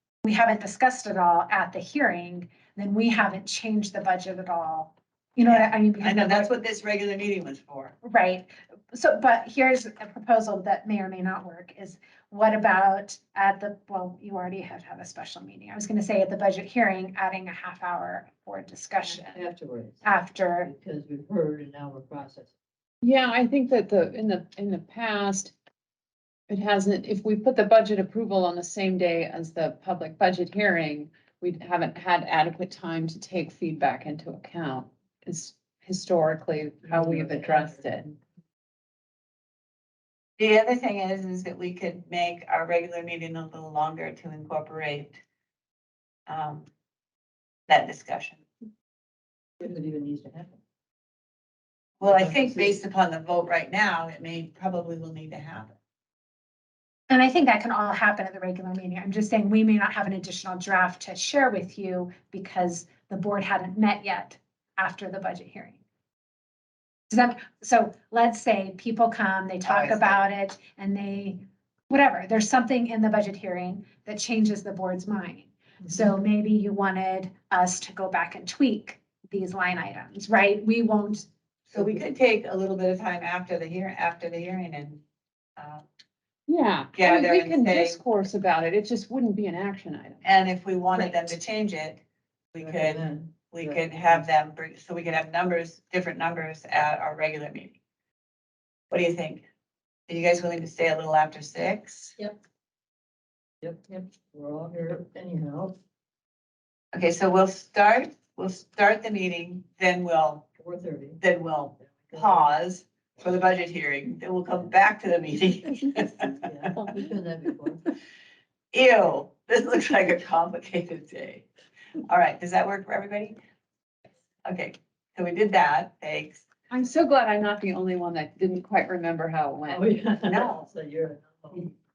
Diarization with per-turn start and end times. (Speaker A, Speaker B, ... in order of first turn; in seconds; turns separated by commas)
Speaker A: 0.2-6.5, Speaker B: 5.5-8.0, Speaker A: 8.0-19.4, Speaker C: 19.3-20.0, Speaker A: 20.0-20.7, Speaker C: 20.6-22.5, Speaker D: 23.0-25.5, Speaker D: 26.5-38.1, Speaker C: 36.9-38.1, Speaker B: 40.4-45.2, Speaker B: 46.3-46.7, Speaker B: 47.7-48.4, Speaker C: 49.6-50.6, Speaker B: 52.0-55.8, Speaker C: 52.0-52.8, Speaker A: 57.1-65.8, Speaker A: 67.1-81.3, Speaker B: 69.7-70.2, Speaker C: 75.8-76.1, Speaker B: 81.7-85.0, Speaker B: 85.6-85.8, Speaker D: 86.5-90.2, Speaker B: 87.0-88.0, Speaker B: 90.2-92.0, Speaker B: 92.5-97.8, Speaker C: 92.6-94.2, Speaker B: 98.9-99.5, Speaker B: 100.1-102.2, Speaker C: 103.6-105.8, Speaker B: 106.9-110.5, Speaker C: 110.6-111.2, Speaker B: 111.2-116.3, Speaker C: 111.9-112.6, Speaker C: 116.4-117.9, Speaker B: 118.7-121.5, Speaker B: 122.1-123.4, Speaker B: 124.5-126.5, Speaker D: 126.7-129.9, Speaker C: 129.7-131.7, Speaker B: 130.3-130.7